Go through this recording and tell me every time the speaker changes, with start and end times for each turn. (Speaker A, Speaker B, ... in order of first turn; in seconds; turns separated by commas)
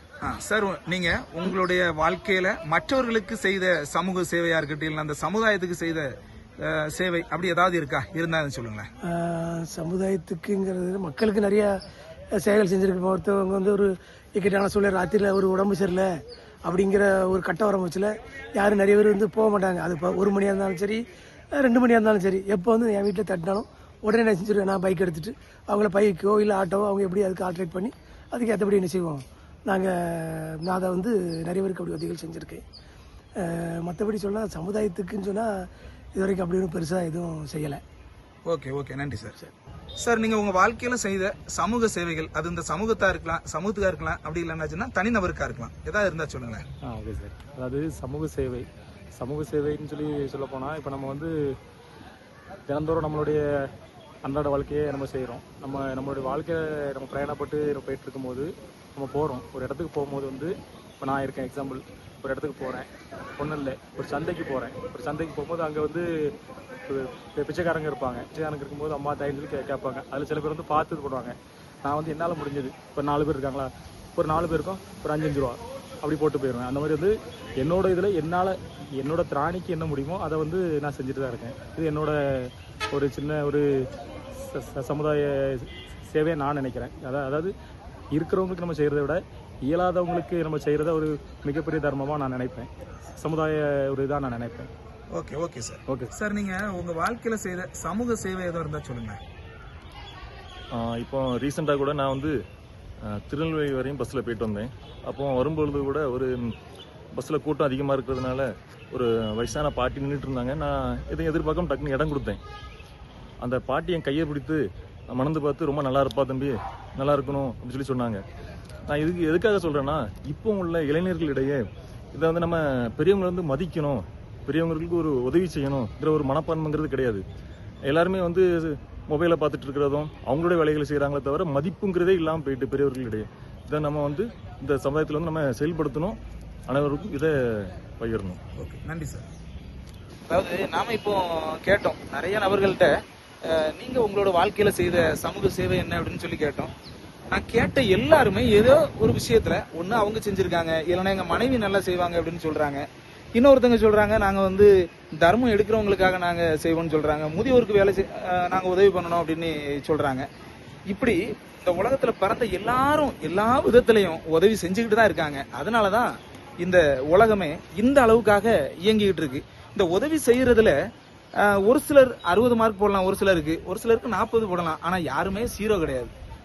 Speaker A: 0.2-6.1, Speaker A: 6.6-8.9, Speaker B: 9.1-11.7, Speaker B: 12.4-16.1, Speaker B: 16.6-21.0, Speaker B: 21.5-32.6, Speaker B: 33.4-35.5, Speaker B: 36.1-37.8, Speaker A: 38.4-46.6, Speaker C: 46.8-51.5, Speaker C: 52.7-53.7, Speaker C: 54.2-66.3, Speaker C: 66.9-87.5, Speaker C: 88.1-94.7, Speaker A: 95.1-99.2, Speaker C: 95.9-96.1, Speaker D: 100.7-102.3, Speaker D: 103.2-106.5, Speaker D: 107.2-112.4, Speaker D: 113.4-114.6, Speaker D: 115.1-118.2, Speaker D: 118.9-121.6, Speaker D: 122.1-127.2, Speaker D: 127.9-138.4, Speaker A: 138.6-139.2, Speaker A: 140.3-146.7, Speaker A: 147.3-152.8, Speaker A: 153.3-160.2, Speaker A: 160.9-170.7, Speaker A: 171.4-176.1